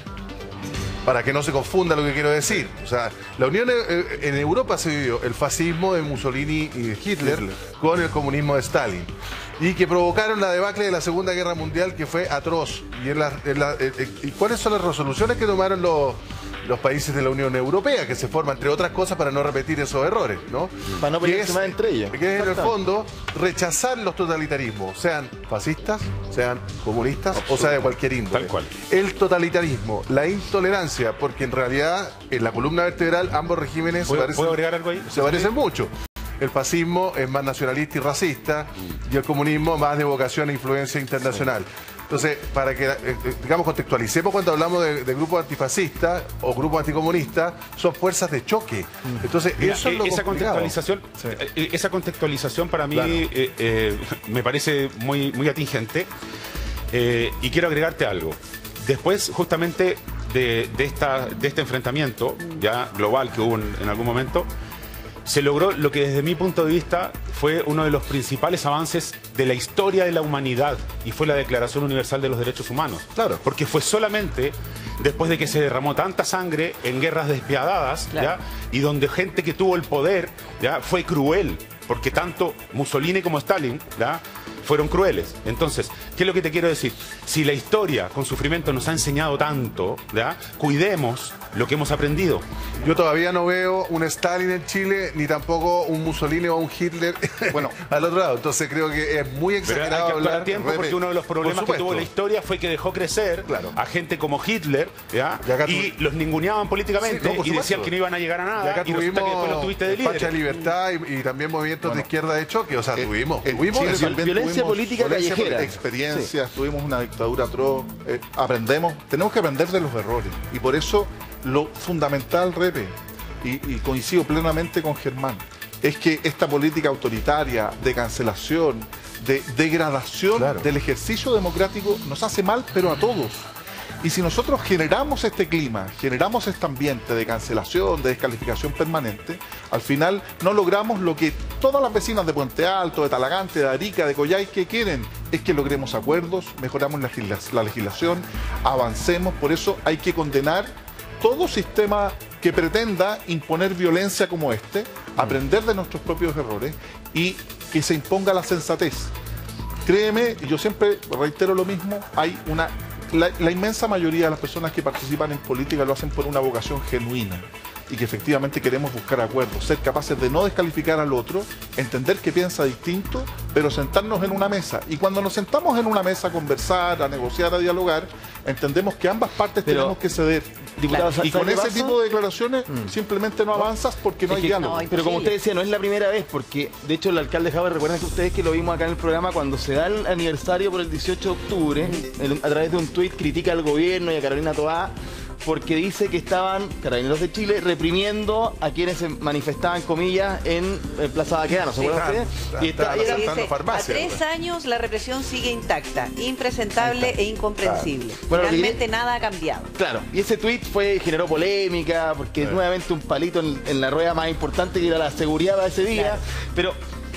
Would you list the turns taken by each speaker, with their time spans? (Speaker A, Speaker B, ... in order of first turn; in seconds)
Speaker A: 1.0-51.4, 52.9-53.2, 92.8-102.1, 103.5-103.7, 105.4-105.9, 107.0-107.9, 108.6-114.2, 130.3-130.6, 201.8-204.2
Speaker B: 21.0-22.7, 113.7-116.3, 179.6-179.9, 180.8-181.9, 184.3-203.4, 206.8-207.1, 207.7-208.8, 209.8-216.8
Speaker C: 28.3-28.7, 34.0-35.5, 49.6-56.1, 56.9-64.5, 65.2-92.4, 99.6-110.4
Speaker D: 97.5-97.8, 112.9-133.5, 134.0-159.1, 159.8-184.8
Speaker E: 180.9-181.2, 184.5-185.3, 201.7-202.0, 202.9-209.7, 215.9-216.2